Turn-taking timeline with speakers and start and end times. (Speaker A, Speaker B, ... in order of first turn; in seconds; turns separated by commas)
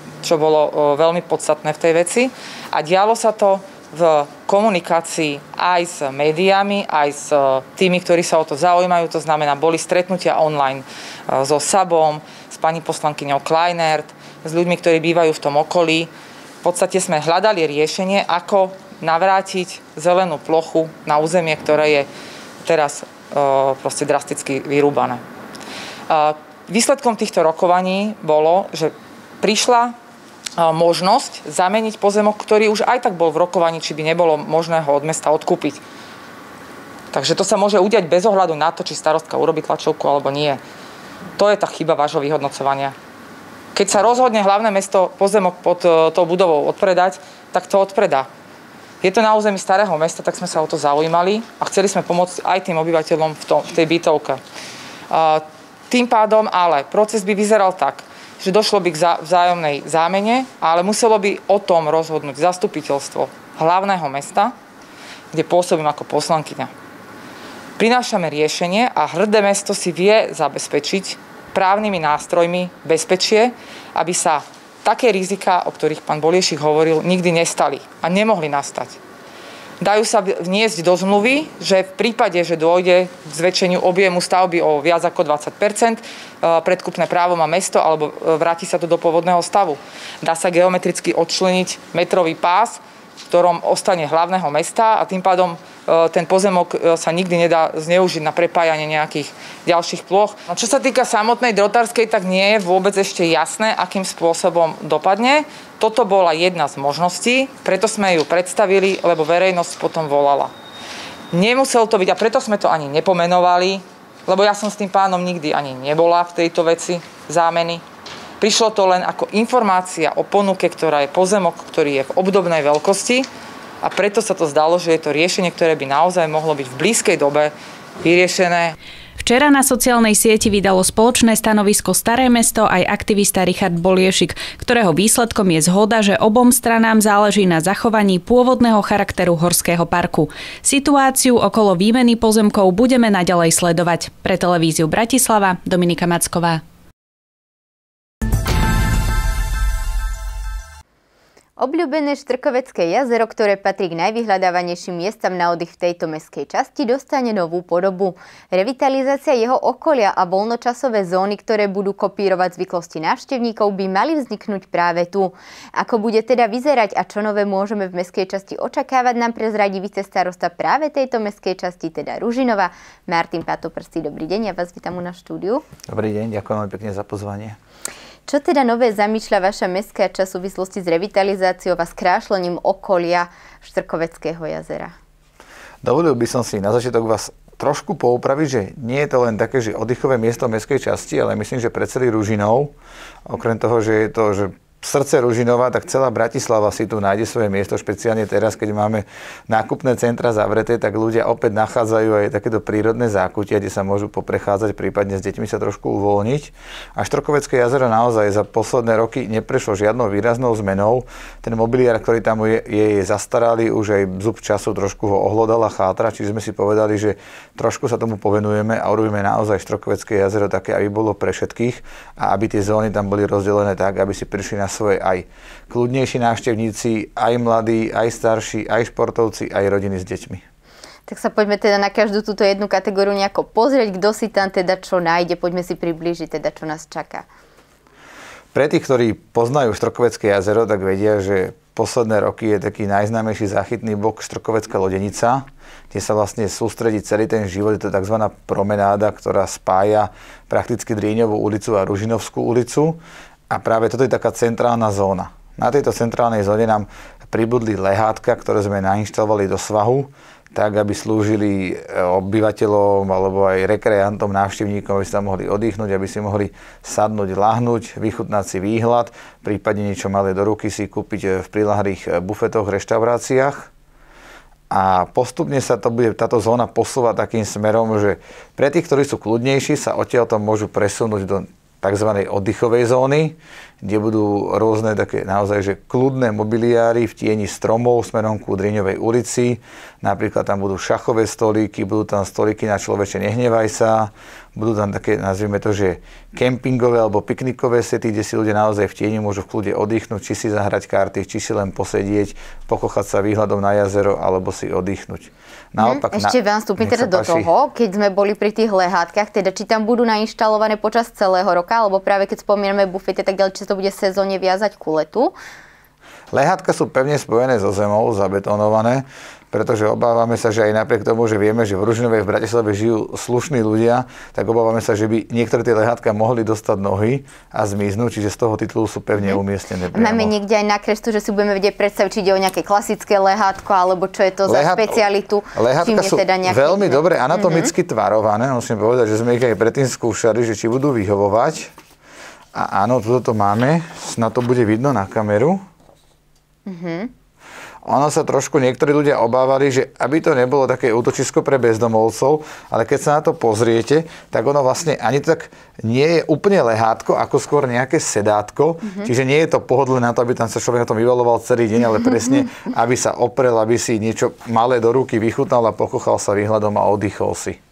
Speaker A: 0.2-16.1, Speaker A: 16.6-22.1, Speaker A: 22.6-25.2, Speaker A: 26.1-29.9, Speaker A: 30.6-35.8, Speaker A: 37.1-40.6, Speaker A: 41.4-42.9, Speaker A: 43.7-48.3, Speaker A: 49.0-54.4, Speaker A: 55.1-64.5, Speaker A: 65.3-66.7, Speaker A: 67.8-79.0, Speaker A: 79.8-110.5, Speaker A: 111.3-117.8, Speaker A: 118.4-123.3, Speaker A: 123.8-128.8, Speaker B: 129.2-146.6, Speaker C: 151.6-175.6, Speaker D: 175.9-177.6, Speaker C: 178.3-184.9, Speaker D: 185.8-192.7, Speaker D: 193.3-230.4, Speaker C: 231.1-237.2, Speaker D: 238.5-253.0, Speaker D: 253.5-273.7, Speaker D: 274.7-307.5, Speaker C: 305.8-315.3, Speaker D: 316.3-330.3, Speaker C: 329.9-337.7, Speaker D: 334.4-335.0, Speaker D: 335.5-341.7, Speaker D: 342.5-345.6, Speaker C: 346.6-347.1, Speaker D: 347.8-367.6